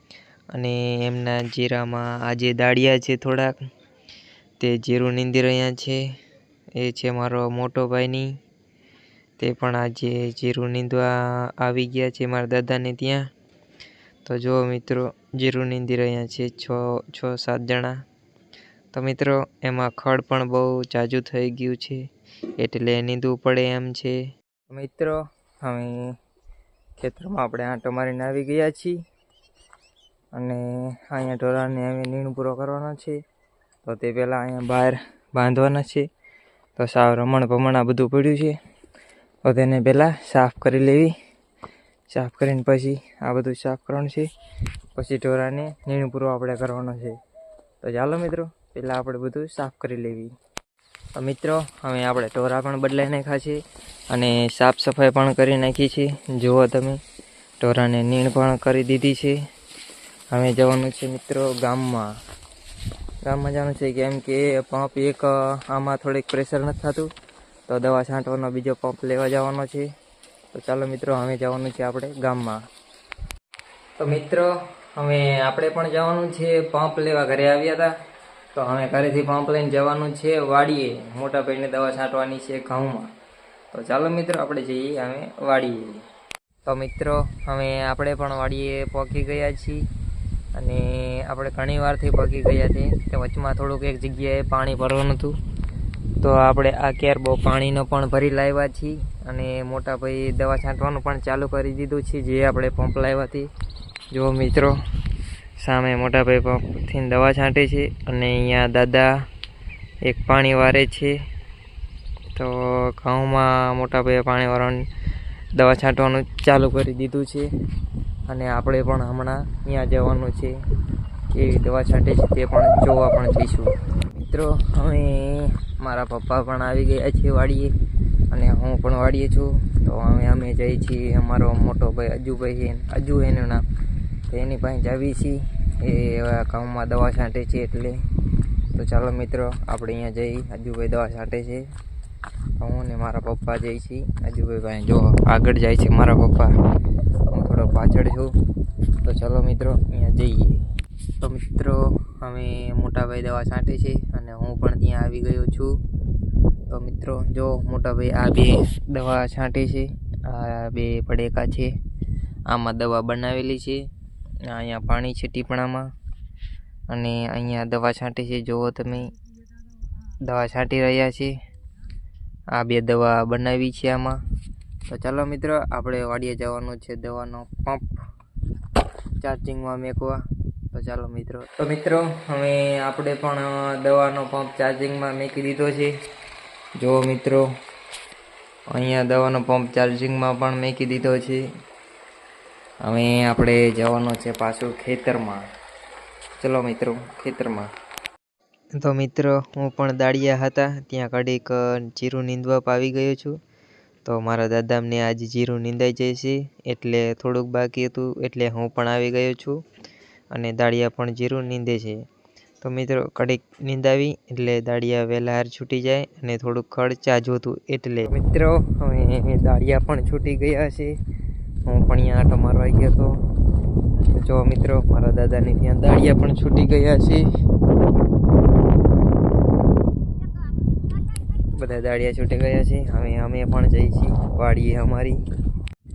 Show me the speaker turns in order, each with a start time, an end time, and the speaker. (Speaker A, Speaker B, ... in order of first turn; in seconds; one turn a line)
Speaker A: 0.5-3.5
Speaker A: 4.6-6.0
Speaker A: 6.8-8.3
Speaker A: 9.4-13.2
Speaker A: 14.2-17.9
Speaker A: 18.9-22.1
Speaker A: 22.6-24.2
Speaker A: 24.7-26.0
Speaker A: 27.0-29.0
Speaker A: 30.3-33.2
Speaker A: 33.9-36.1
Speaker A: 36.8-38.6
Speaker A: 39.5-41.1
Speaker A: 42.1-44.3
Speaker A: 45.0-47.2
Speaker A: 47.8-50.3
Speaker A: 51.1-53.6
Speaker A: 54.1-57.0
Speaker A: 57.6-59.4
Speaker A: 60.3-62.1
Speaker A: 63.2-67.1
Speaker A: 67.7-69.8
Speaker A: 70.5-72.6
Speaker A: 74.0-77.9
Speaker A: 78.5-83.1
Speaker A: 83.7-86.0
Speaker A: 86.7-89.8
Speaker A: 90.5-95.4
Speaker A: 96.2-103.5
Speaker A: 104.1-104.8
Speaker A: 105.6-109.2
Speaker A: 110.0-111.2
Speaker A: 112.3-114.9
Speaker A: 115.5-117.5
Speaker A: 118.3-120.5
Speaker A: 121.3-127.7
Speaker A: 128.3-133.6
Speaker A: 134.3-138.0
Speaker A: 138.7-141.7
Speaker A: 142.6-146.5
Speaker A: 147.3-148.3
Speaker A: 149.0-150.6
Speaker A: 151.2-155.8
Speaker A: 156.7-161.8
Speaker A: 162.5-163.8
Speaker A: 164.5-165.9
Speaker A: 166.9-169.1
Speaker A: 170.2-171.3
Speaker A: 172.5-174.2
Speaker A: 174.9-178.0
Speaker A: 179.2-185.9
Speaker A: 186.8-187.5
Speaker A: 188.7-191.4
Speaker A: 192.8-195.4
Speaker A: 196.4-197.7
Speaker A: 198.8-203.4
Speaker A: 204.1-209.6
Speaker A: 210.3-212.0
Speaker A: 212.6-221.0
Speaker A: 221.7-223.1
Speaker A: 224.1-227.3
Speaker A: 231.5-235.2